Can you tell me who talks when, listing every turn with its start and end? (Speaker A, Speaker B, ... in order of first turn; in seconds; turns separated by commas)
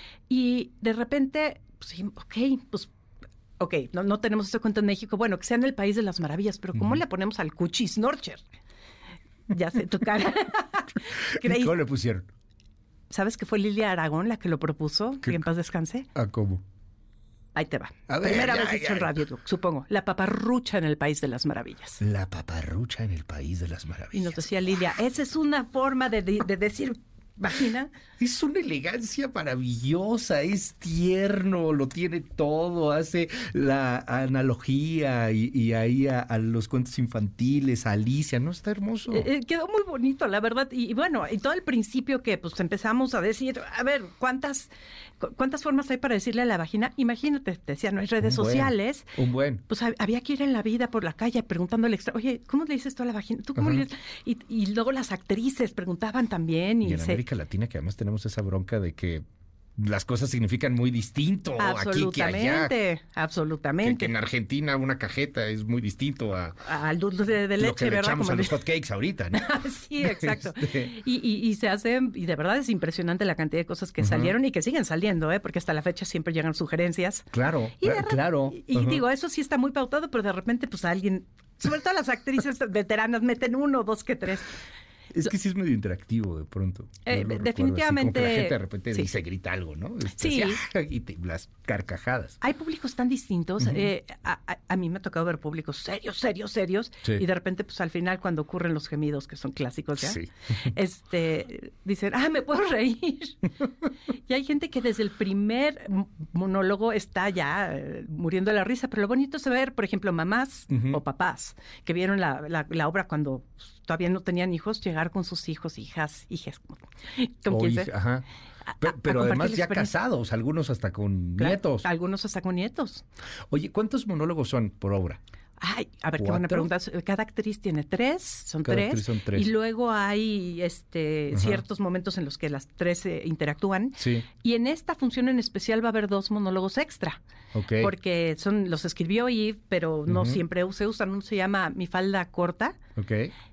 Speaker A: 0.3-2.9, Speaker A: 3.6-8.4, Speaker B: 6.7-7.0, Speaker A: 9.5-11.7, Speaker B: 11.3-12.3, Speaker A: 13.1-16.1, Speaker B: 16.1-16.6, Speaker A: 17.5-22.0, Speaker B: 18.1-19.2, Speaker B: 22.0-24.4, Speaker A: 24.1-27.9, Speaker B: 28.2-39.3, Speaker A: 39.1-49.1, Speaker B: 48.2-49.6, Speaker A: 49.7-57.2, Speaker B: 53.6-53.8, Speaker B: 56.8-59.2, Speaker B: 59.8-62.7, Speaker A: 61.6-64.1, Speaker B: 63.8-66.6, Speaker A: 66.6-68.7, Speaker B: 67.5-70.9, Speaker A: 69.3-84.5, Speaker B: 74.0-74.3, Speaker B: 77.3-79.0, Speaker B: 85.1-92.4, Speaker A: 87.0-89.1, Speaker A: 90.1-90.6, Speaker A: 92.4-103.5, Speaker B: 93.6-93.8, Speaker B: 100.0-100.3, Speaker A: 104.2-117.9, Speaker B: 110.7-111.0, Speaker B: 117.5-118.2, Speaker A: 118.7-119.9, Speaker B: 118.8-121.9, Speaker A: 121.4-123.0, Speaker B: 123.5-125.2, Speaker A: 125.6-137.2, Speaker B: 126.2-126.7, Speaker B: 128.6-129.5, Speaker B: 131.3-131.6, Speaker B: 134.0-134.2, Speaker B: 137.5-137.9, Speaker A: 137.8-142.8, Speaker B: 140.1-140.4, Speaker B: 142.9-143.3